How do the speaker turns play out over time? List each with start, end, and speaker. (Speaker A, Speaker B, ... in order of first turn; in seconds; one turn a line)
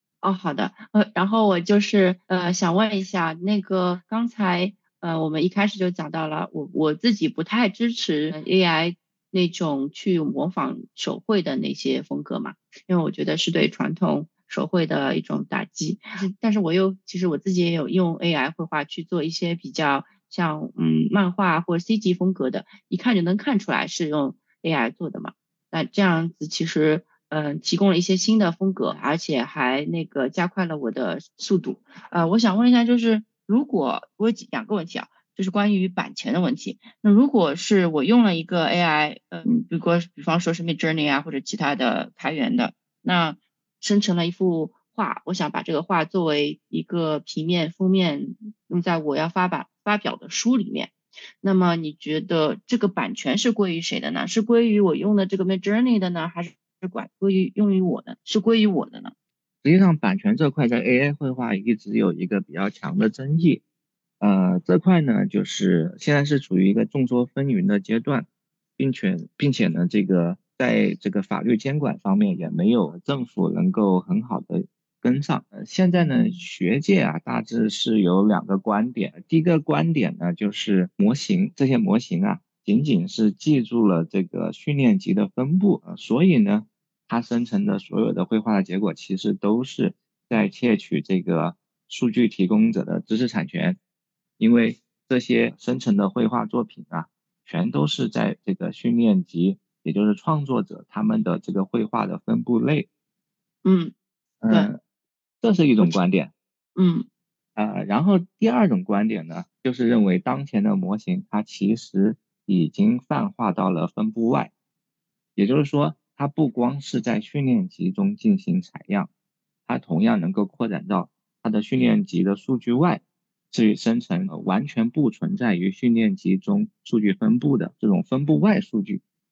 Speaker A: 0.2-59.1
Speaker B: 59.6-63.6
Speaker B: 64.2-68.3
Speaker B: 68.8-93.8
Speaker A: 76.0-76.4
Speaker B: 94.4-102.9
Speaker A: 103.7-103.9
Speaker B: 104.4-104.8
Speaker B: 105.4-106.3
Speaker A: 106.8-107.1
Speaker B: 107.6-114.5
Speaker B: 115.4-119.1
Speaker B: 119.7-129.0